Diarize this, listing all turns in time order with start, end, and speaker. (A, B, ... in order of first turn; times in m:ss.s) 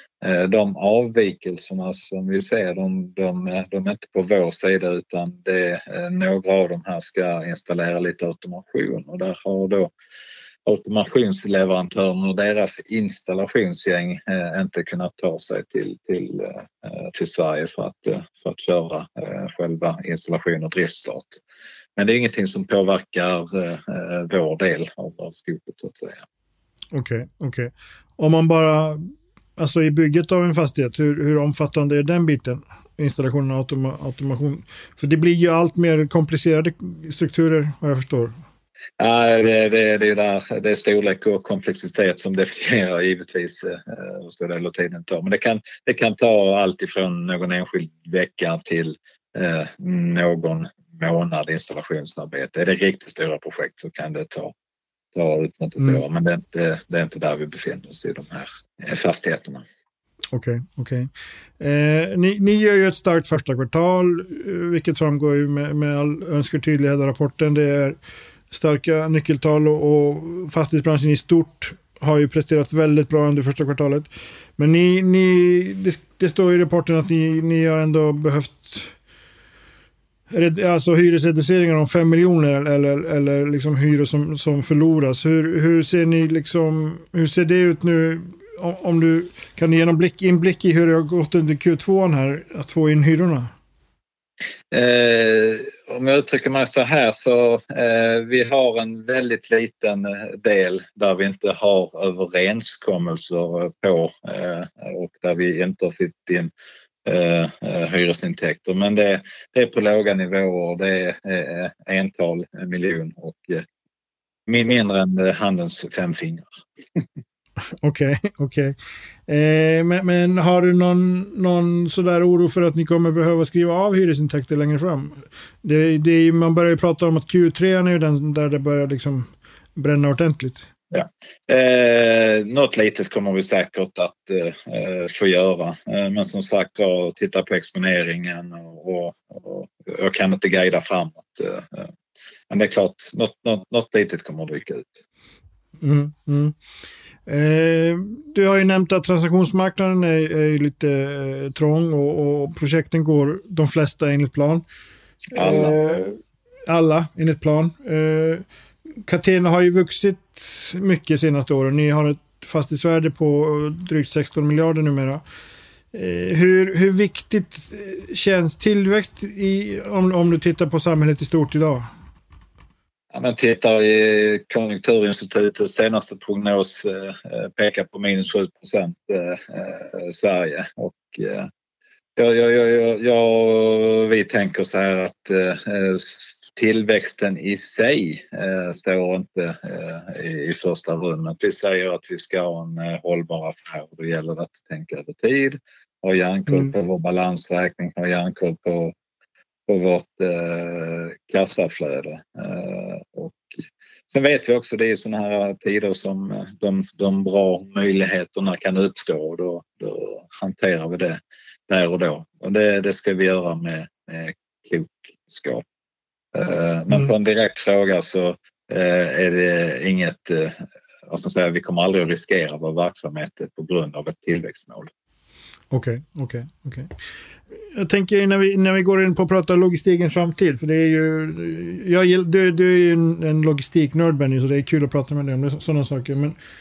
0:00.2-0:09.9 A
0:10.6-0:21.4 A
0:22.0-0:26.2 A
0:26.9-0:38.3 B
0:39.0-0:54.5 A
0:55.1-0:59.6 A
1:00.3-1:08.0 B
1:08.5-1:18.9 B
1:20.3-1:33.5 B
1:34.7-1:46.5 A
1:47.0-1:53.6 A
1:54.5-1:56.5 A
1:57.8-1:58.7 B
1:59.3-2:10.6 B
2:10.9-2:21.9 A
2:22.5-2:25.0 A
2:25.8-2:26.5 B
2:27.3-2:34.6 B
2:35.3-2:36.2 B
2:35.3-2:35.8 A
2:36.7-2:38.4 B
2:39.0-2:45.2 B
2:45.9-2:51.9 B
2:53.1-3:01.5 A
3:02.2-3:18.9 A
3:19.7-3:23.5 A
3:24.1-3:35.6 A
3:36.3-3:40.6 A
3:41.1-3:44.9 A
3:45.7-3:46.9 B
3:47.5-3:56.3 B